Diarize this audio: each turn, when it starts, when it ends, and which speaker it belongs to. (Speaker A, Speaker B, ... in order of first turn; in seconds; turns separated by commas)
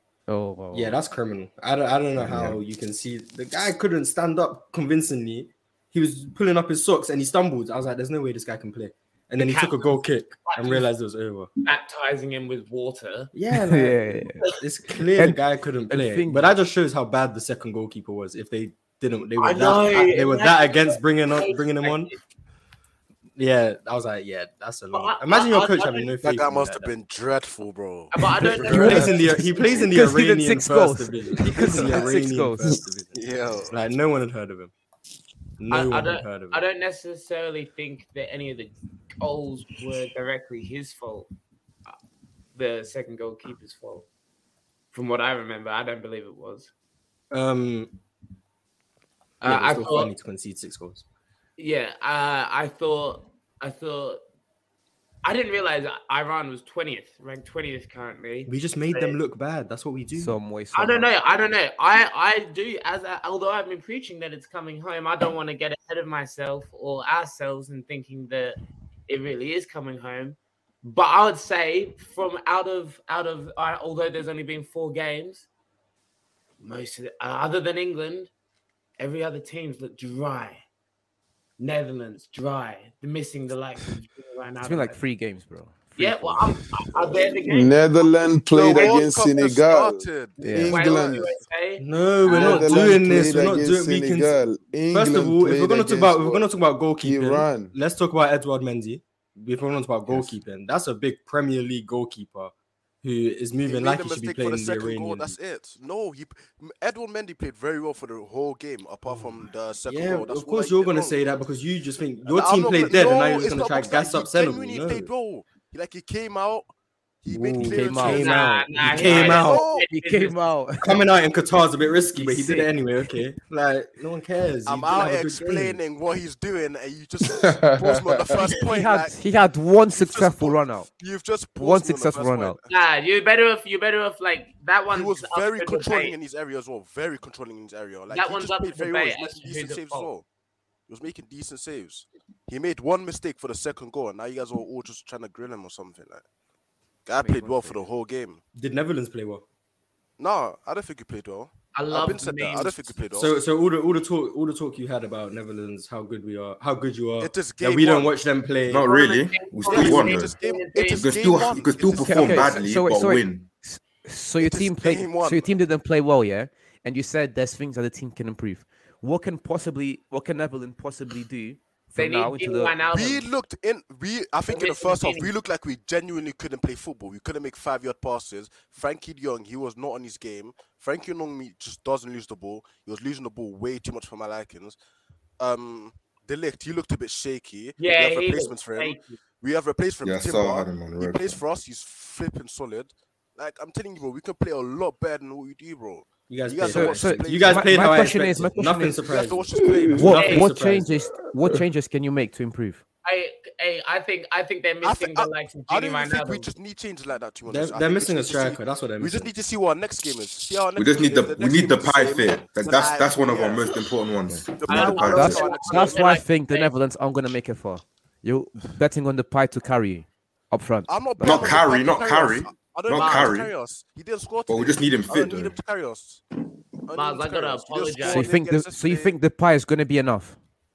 Speaker A: 0.3-1.0, Speaker B: 0.7-11.5, Speaker C: 2.1-2.6, Speaker D: 9.4-10.9, Speaker D: 11.6-13.3, Speaker B: 13.3-22.1, Speaker A: 13.5-14.4, Speaker A: 15.2-16.5, Speaker D: 19.4-22.2, Speaker B: 23.4-26.9, Speaker D: 24.9-26.1, Speaker E: 26.2-29.1, Speaker D: 28.1-29.6, Speaker B: 28.6-34.7, Speaker A: 29.8-32.7, Speaker E: 33.1-33.8, Speaker B: 35.6-36.6, Speaker D: 35.7-41.3, Speaker D: 42.5-44.0, Speaker D: 44.9-46.7, Speaker B: 47.3-48.0, Speaker D: 49.4-50.1, Speaker B: 49.4-51.0, Speaker D: 51.6-54.2, Speaker D: 55.2-59.2, Speaker B: 58.5-60.4, Speaker A: 60.1-61.1, Speaker D: 60.7-68.6, Speaker D: 69.1-75.5, Speaker D: 76.6-78.3, Speaker D: 79.0-80.6, Speaker D: 81.6-85.0, Speaker A: 84.6-86.7, Speaker D: 86.0-88.1, Speaker F: 87.0-91.3, Speaker E: 88.4-91.4, Speaker D: 88.7-89.0, Speaker A: 90.4-90.8, Speaker D: 90.7-92.9, Speaker B: 91.8-94.4, Speaker F: 92.2-96.5, Speaker B: 94.9-105.3, Speaker F: 97.0-97.7, Speaker E: 103.7-111.3, Speaker B: 109.9-115.1, Speaker E: 112.3-116.7, Speaker E: 117.2-118.4, Speaker B: 117.4-119.6, Speaker A: 117.6-118.3, Speaker D: 118.1-120.3, Speaker E: 119.0-119.9, Speaker A: 119.9-121.0, Speaker B: 120.8-125.8, Speaker A: 122.1-122.7, Speaker E: 124.7-129.1, Speaker F: 127.3-128.3, Speaker A: 128.4-130.9, Speaker E: 130.0-132.7, Speaker A: 131.6-132.6, Speaker D: 132.7-136.2, Speaker E: 134.9-140.2, Speaker D: 138.1-140.1, Speaker E: 140.9-146.2, Speaker E: 147.1-148.4, Speaker A: 147.2-147.8, Speaker B: 148.6-149.4, Speaker E: 150.2-153.3, Speaker D: 151.7-152.8, Speaker B: 153.1-158.8, Speaker E: 157.2-158.2, Speaker C: 158.7-160.3, Speaker D: 158.8-161.1, Speaker E: 159.6-162.7, Speaker C: 161.0-163.5, Speaker A: 162.0-172.8, Speaker E: 164.4-165.5, Speaker D: 172.0-173.3, Speaker E: 172.9-184.8, Speaker D: 174.5-175.3, Speaker E: 185.4-198.1, Speaker D: 187.8-189.2, Speaker C: 190.0-191.4, Speaker B: 196.3-201.0, Speaker A: 196.7-199.0, Speaker E: 199.0-200.3, Speaker F: 199.6-200.1, Speaker A: 199.9-202.8, Speaker D: 200.1-200.5, Speaker D: 203.0-206.5, Speaker E: 204.8-213.8, Speaker B: 207.4-209.3, Speaker C: 210.8-215.4, Speaker E: 214.5-216.2, Speaker D: 214.7-216.7, Speaker A: 215.1-221.6, Speaker E: 220.9-226.2, Speaker C: 221.2-223.5, Speaker D: 222.9-223.4, Speaker C: 224.5-225.6, Speaker E: 226.8-229.1, Speaker D: 226.9-228.3, Speaker A: 228.0-230.4